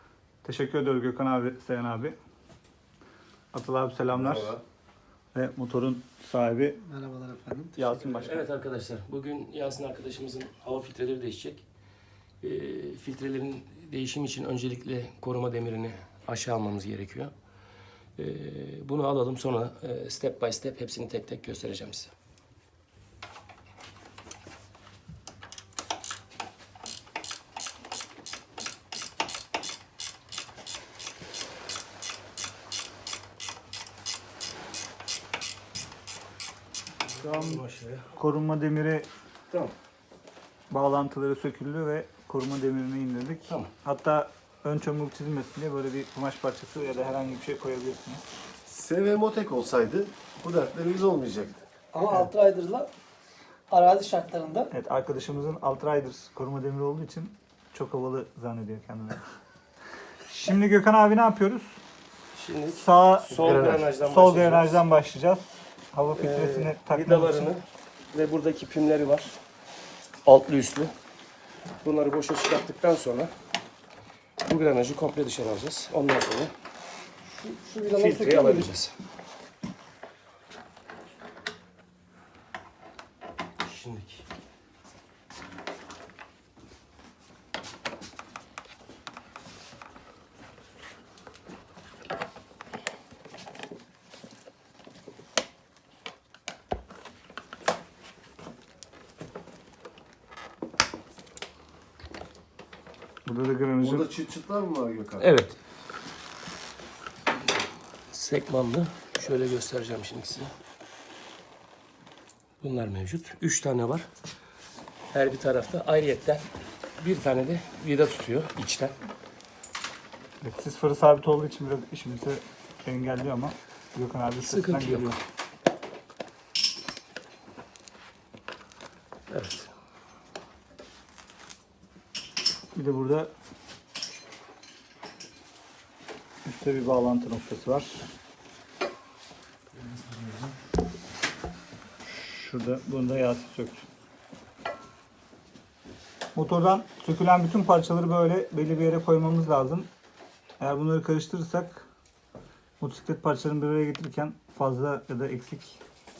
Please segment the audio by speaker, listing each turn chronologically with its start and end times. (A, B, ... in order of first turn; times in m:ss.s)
0:00.4-0:02.2 A
0:03.5-0:04.5 A
0:04.1-0:04.6 B
0:05.3-0:06.8 A
0:06.8-0:07.9 C
0:07.8-0:08.5 A
0:08.1-0:11.6 D
0:12.4-0:17.3 D
0:18.2-0:22.1 D
0:37.0-0:38.1 D
0:37.2-0:37.6 A
0:38.2-0:39.1 A
0:40.7-0:48.2 A
0:48.7-0:51.6 B
0:51.9-0:52.9 C
0:53.7-0:54.7 C
0:54.7-0:59.2 A
1:00.3-1:01.8 A
1:02.3-1:04.8 D
1:02.7-1:07.5 A
1:03.4-1:03.8 B
1:06.2-1:09.4 D
1:10.2-1:10.9 D
1:11.8-1:13.3 D
1:14.4-1:16.5 D
1:17.3-1:18.7 C
1:17.9-1:18.9 D
1:23.6-1:24.2 D
1:43.3-1:44.1 A
1:43.8-1:45.3 B
1:45.2-1:45.6 D
1:48.1-1:50.5 D
1:52.6-1:54.1 D
1:55.1-1:56.5 D
1:57.0-1:58.9 D
2:00.4-2:05.2 A
2:04.4-2:05.2 D
2:09.3-2:09.7 D
2:12.7-2:13.3 A
2:16.4-2:18.1 A
2:19.7-2:20.6 D
2:22.0-2:23.8 A
2:26.4-2:29.9 A
2:30.6-2:31.8 A
2:32.8-2:35.8 A